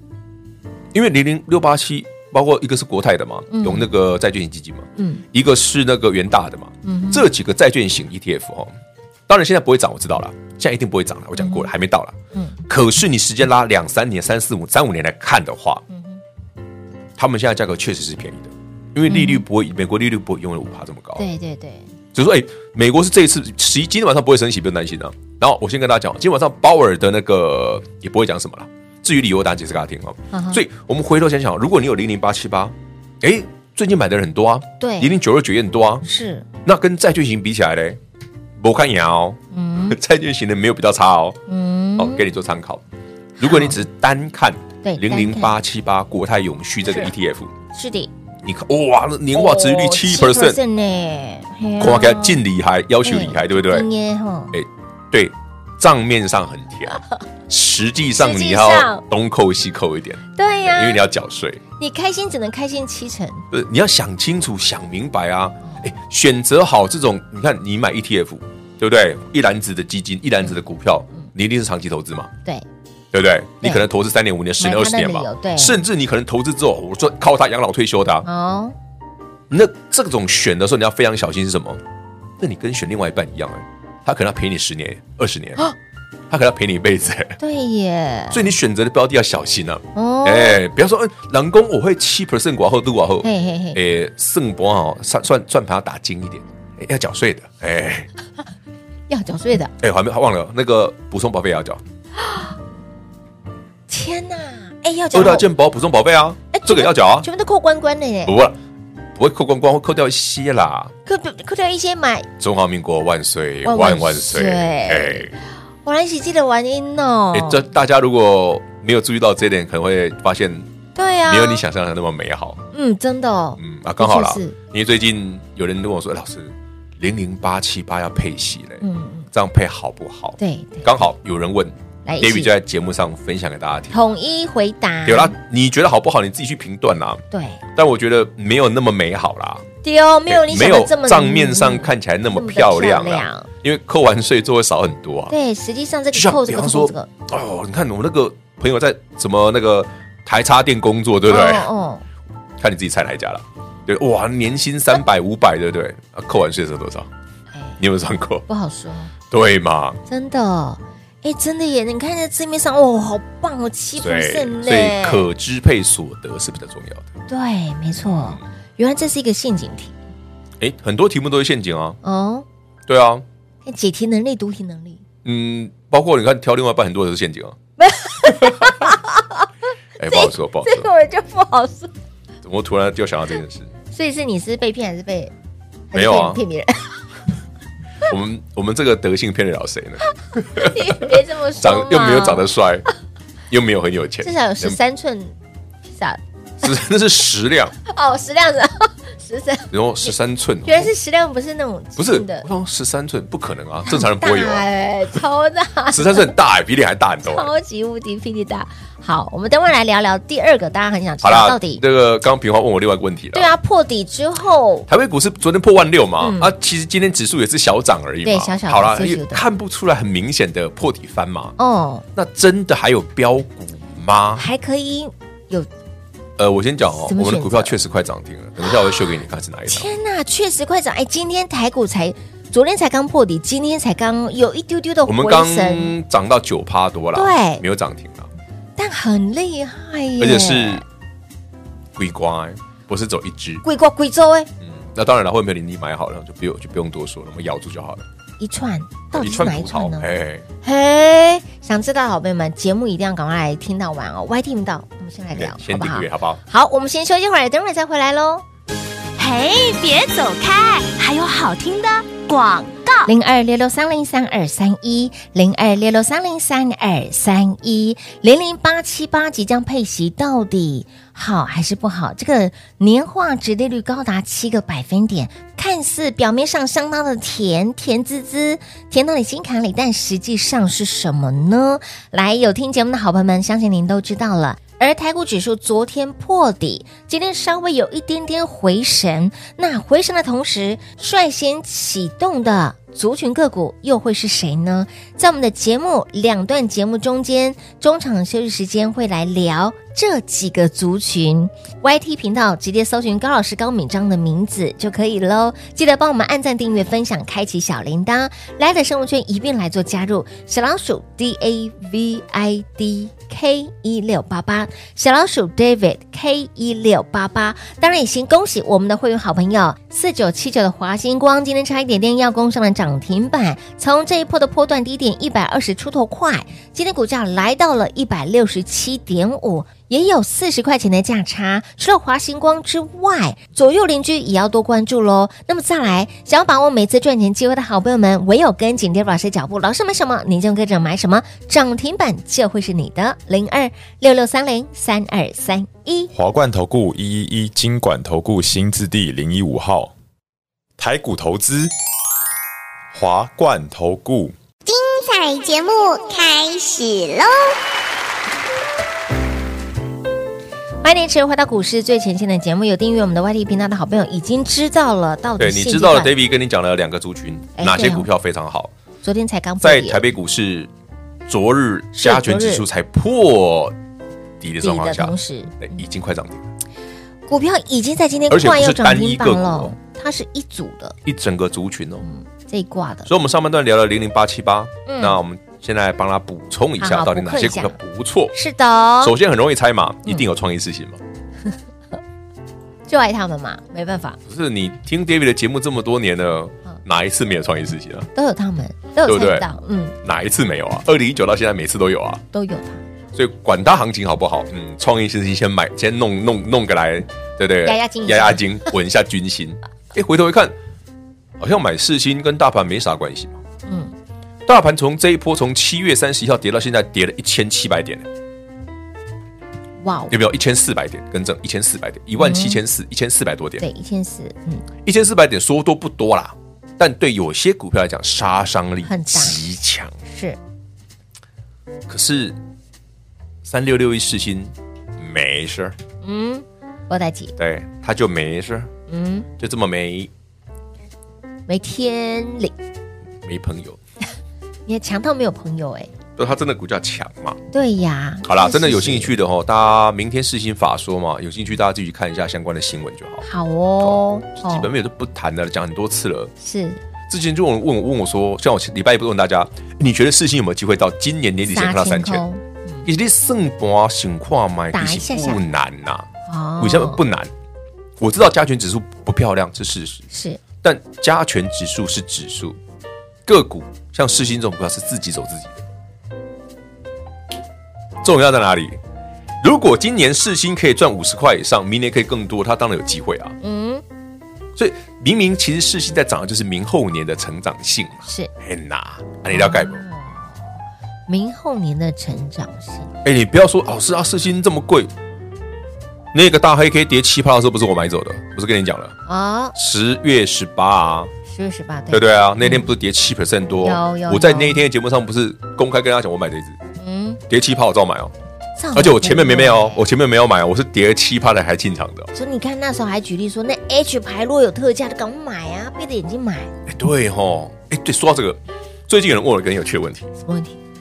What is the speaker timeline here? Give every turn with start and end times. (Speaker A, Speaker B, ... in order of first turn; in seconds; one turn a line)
Speaker A: 0.9-8.8
Speaker B: 3.5-3.9
Speaker B: 5.0-5.2
Speaker B: 6.8-7.3
Speaker A: 9.3-12.2
Speaker B: 11.4-11.7
Speaker A: 12.7-15.8
Speaker B: 15.9-16.2
Speaker A: 17.2-21.2
Speaker B: 19.1-19.4
Speaker B: 21.2-21.9
Speaker A: 22.1-36.0
Speaker B: 30.3-30.6
Speaker B: 34.8-35.1
Speaker B: 36.0-36.5
Speaker A: 36.6-38.0
Speaker A: 38.6-41.4
Speaker B: 39.5-40.0
Speaker B: 41.5-42.2
Speaker A: 42.0-42.8
Speaker A: 43.4-47.5
Speaker B: 43.4-43.8
Speaker B: 44.8-45.6
Speaker B: 47.7-48.1
Speaker A: 48.4-50.6
Speaker B: 49.3-52.4
Speaker A: 51.8-53.9
Speaker B: 53.0-54.5
Speaker A: 54.5-61.6
Speaker B: 58.2-59.0
Speaker B: 60.4-61.0
Speaker B: 61.8-63.5
Speaker A: 63.5-72.3
Speaker A: 73.1-78.3
Speaker B: 74.6-75.8
Speaker B: 78.2-78.8
Speaker A: 79.5-81.8
Speaker A: 82.4-85.6
Speaker A: 86.3-87.4
Speaker B: 87.4-88.5
Speaker A: 88.3-98.1
Speaker B: 89.9-90.6
Speaker B: 93.2-93.8
Speaker B: 99.1-99.7
Speaker A: 99.8-101.8
Speaker B: 103.9-105.5
Speaker A: 105.1-107.3
Speaker B: 106.5-108.4
Speaker A: 108.2-108.6
Speaker A: 109.1-110.9
Speaker B: 111.1-112.3
Speaker A: 112.4-115.3
Speaker B: 113.6-117.6
Speaker A: 117.3-120.7
Speaker B: 120.9-121.6
Speaker A: 121.3-122.6
Speaker B: 122.7-124.5
Speaker A: 123.6-134.0
Speaker B: 128.8-129.3
Speaker B: 130.4-130.9
Speaker B: 132.0-132.5
Speaker B: 133.9-135.3
Speaker A: 135.1-137.2
Speaker B: 137.3-137.6
Speaker A: 137.8-139.6
Speaker B: 139.8-143.5
Speaker A: 140.3-145.3
Speaker B: 145.3-147.1
Speaker A: 146.1-151.7
Speaker B: 151.3-152.0
Speaker A: 152.6-157.1
Speaker B: 157.5-157.8
Speaker A: 157.8-158.5
Speaker B: 158.5-159.1
Speaker A: 159.3-160.0
Speaker B: 160.1-165.3
Speaker A: 164.0-167.1
Speaker B: 167.3-169.9
Speaker A: 168.0-168.4
Speaker A: 170.6-172.0
Speaker B: 172.0-172.4
Speaker A: 172.9-173.2
Speaker B: 173.6-175.0
Speaker A: 175.2-177.6
Speaker B: 177.8-179.5
Speaker A: 178.3-178.7
Speaker A: 180.0-180.9
Speaker B: 180.0-181.9
Speaker A: 182.4-183.7
Speaker B: 183.9-185.3
Speaker B: 185.9-187.0
Speaker A: 185.9-186.4
Speaker A: 188.1-192.9
Speaker B: 190.6-192.5
Speaker A: 193.5-194.8
Speaker B: 194.2-196.2
Speaker A: 196.6-197.8
Speaker B: 197.8-200.1
Speaker A: 199.7-200.9
Speaker B: 200.6-202.5
Speaker A: 202.0-204.6
Speaker B: 203.9-206.3
Speaker A: 205.9-207.5
Speaker B: 207.2-211.8
Speaker A: 211.2-213.5
Speaker B: 213.3-214.9
Speaker A: 214.9-221.5
Speaker B: 216.2-216.5
Speaker B: 218.2-219.5
Speaker B: 221.6-222.0
Speaker A: 222.2-224.5
Speaker B: 224.4-225.7
Speaker A: 226.4-229.9
Speaker B: 227.0-227.8
Speaker B: 228.6-229.0
Speaker B: 229.7-236.0
Speaker A: 235.1-238.3
Speaker B: 237.1-237.6
Speaker B: 238.8-240.8
Speaker A: 240.2-240.8
Speaker A: 241.9-243.6
Speaker B: 243.6-244.5
Speaker A: 244.6-248.0
Speaker B: 248.4-250.1
Speaker A: 249.1-250.4
Speaker B: 250.6-258.4
Speaker A: 255.3-256.4
Speaker C: 259.2-263.1
Speaker B: 263.1-346.1
Speaker D: 346.1-349.9
Speaker D: 350.8-351.7
Speaker D: 352.9-354.3
Speaker E: 354.6-357.6
Speaker B: 360.8-366.1
Speaker A: 365.4-368.7
Speaker B: 367.6-368.1
Speaker B: 369.0-370.0
Speaker A: 369.6-370.7
Speaker A: 371.3-373.8
Speaker B: 371.9-372.6
Speaker A: 374.4-376.5
Speaker B: 374.6-375.8
Speaker B: 377.3-381.0
Speaker A: 378.3-379.7
Speaker A: 381.0-382.0
Speaker B: 382.0-383.1
Speaker A: 383.1-388.4
Speaker B: 384.9-385.2
Speaker B: 386.8-387.8
Speaker B: 388.3-389.1
Speaker A: 389.0-391.0
Speaker B: 392.9-394.2
Speaker A: 394.3-398.1
Speaker B: 398.1-400.0
Speaker A: 399.0-399.5
Speaker A: 400.0-402.2
Speaker B: 402.3-402.9
Speaker A: 403.1-410.5
Speaker B: 407.6-408.5
Speaker A: 411.4-413.4
Speaker B: 413.7-413.9
Speaker A: 414.5-418.1
Speaker B: 419.8-420.1
Speaker A: 420.1-423.6
Speaker B: 422.2-422.6
Speaker B: 423.6-424.6
Speaker A: 424.9-429.9
Speaker B: 428.9-429.4
Speaker B: 430.1-430.4
Speaker A: 431.9-432.4
Speaker A: 433.4-435.8
Speaker B: 436.0-437.3
Speaker A: 437.4-438.7
Speaker B: 438.9-439.3
Speaker A: 439.4-440.1
Speaker B: 441.5-442.5
Speaker A: 443.2-443.8
Speaker B: 444.6-445.9
Speaker A: 446.1-447.4
Speaker B: 447.5-449.1
Speaker A: 448.2-453.2
Speaker B: 453.2-454.7
Speaker A: 453.8-456.3
Speaker B: 456.4-456.8
Speaker A: 457.1-462.2
Speaker B: 461.4-462.9
Speaker A: 462.9-466.1
Speaker B: 464.7-465.4
Speaker B: 466.3-467.0
Speaker A: 466.6-467.3
Speaker A: 468.0-470.1
Speaker B: 470.1-470.4
Speaker A: 470.6-472.6
Speaker A: 473.2-475.6
Speaker A: 478.0-478.8
Speaker A: 479.4-483.4
Speaker B: 483.4-483.8
Speaker A: 484.6-489.8
Speaker B: 488.1-488.3
Speaker B: 489.3-490.5
Speaker B: 491.1-492.9
Speaker A: 493.0-494.9
Speaker A: 496.1-498.9
Speaker B: 499.1-499.5
Speaker A: 499.5-501.1
Speaker B: 501.3-502.7
Speaker A: 501.9-506.6
Speaker B: 503.6-504.6
Speaker B: 506.8-507.2
Speaker A: 507.3-508.1
Speaker B: 508.6-509.8
Speaker A: 508.7-512.1
Speaker B: 512.1-516.5
Speaker A: 516.7-520.1
Speaker B: 520.2-520.6